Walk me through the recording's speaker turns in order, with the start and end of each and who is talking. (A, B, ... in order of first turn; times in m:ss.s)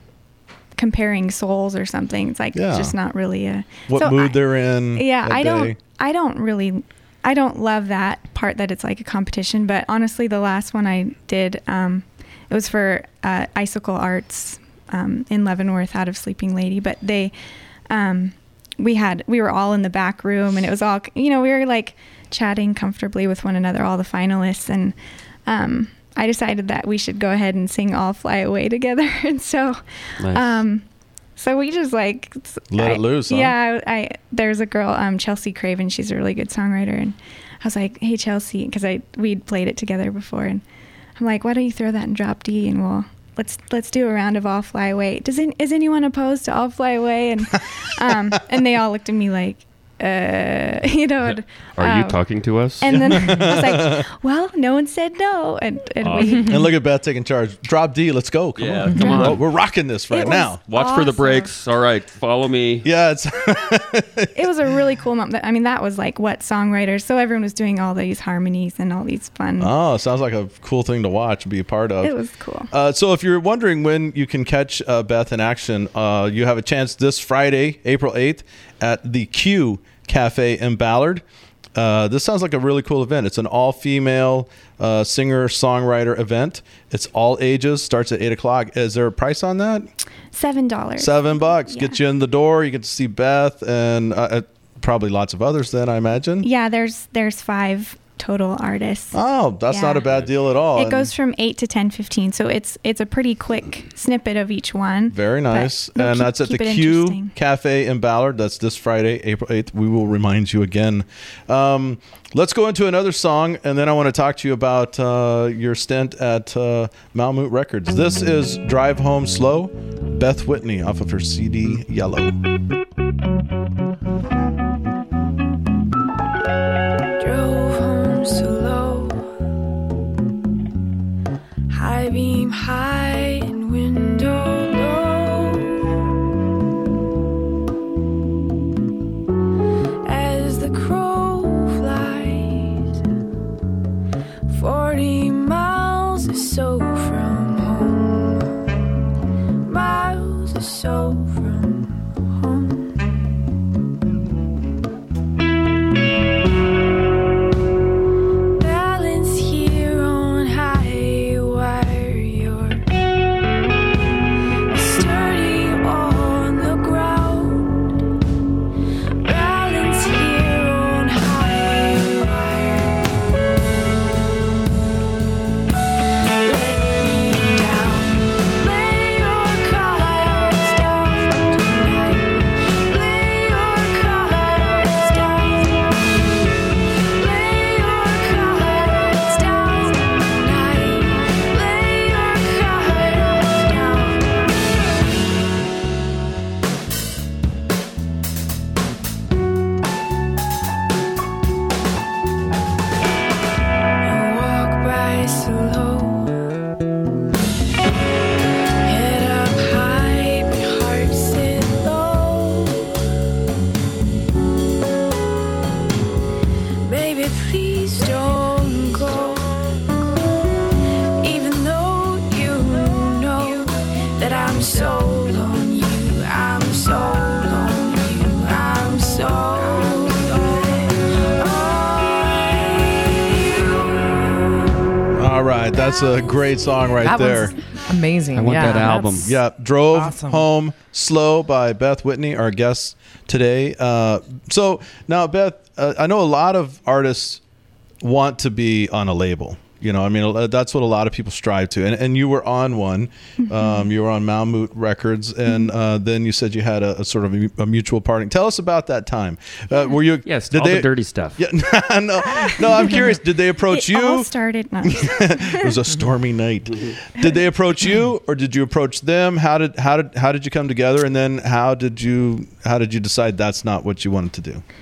0:00.8-0:17.3 A
0:02.5-0:03.0 B
0:03.9-0:05.8 B
0:17.9-0:30.8 A
0:30.2-0:30.6 C
0:31.4-0:40.6 A
0:32.7-0:33.6 B
0:41.2-0:52.2 A
0:51.3-0:53.1 C
0:52.8-0:56.7 A
0:52.8-0:54.0 B
0:56.0-0:56.3 C
0:56.3-1:00.6 B
0:58.6-0:59.4 C
0:58.9-0:59.3 D
1:00.1-1:01.5 A
1:00.7-1:02.8 C
1:02.8-1:04.3 B
1:04.3-1:09.7 A
1:09.6-1:12.1 B
1:12.0-1:12.7 A
1:12.7-1:21.2 B
1:21.7-1:29.9 B
1:30.3-1:32.0 A
1:31.0-1:36.5 B
1:36.4-1:39.2 A
1:39.1-1:41.1 B
1:39.7-1:40.1 A
1:40.7-1:47.3 A
1:45.1-2:02.3 B
2:07.2-2:09.3 E
2:11.7-2:15.9 E
2:20.0-2:22.9 E
2:24.5-2:28.6 E
2:29.6-2:33.0 E
2:38.6-2:42.8 E
2:44.7-2:47.9 E
2:49.2-2:53.0 E
2:56.4-3:06.3 E
3:07.1-3:14.5 E
3:24.0-3:26.4 E
3:28.8-3:32.9 E
3:36.8-3:39.7 E
3:41.2-3:54.7 E
3:55.1-3:57.5 B
3:57.0-3:59.4 D
3:58.3-3:59.3 C
3:59.2-4:07.4 B
3:59.9-4:00.4 D
4:08.0-4:24.3 B
4:13.4-4:13.8 A
4:20.2-4:21.4 C
4:23.7-4:25.8 A
4:24.8-4:34.6 B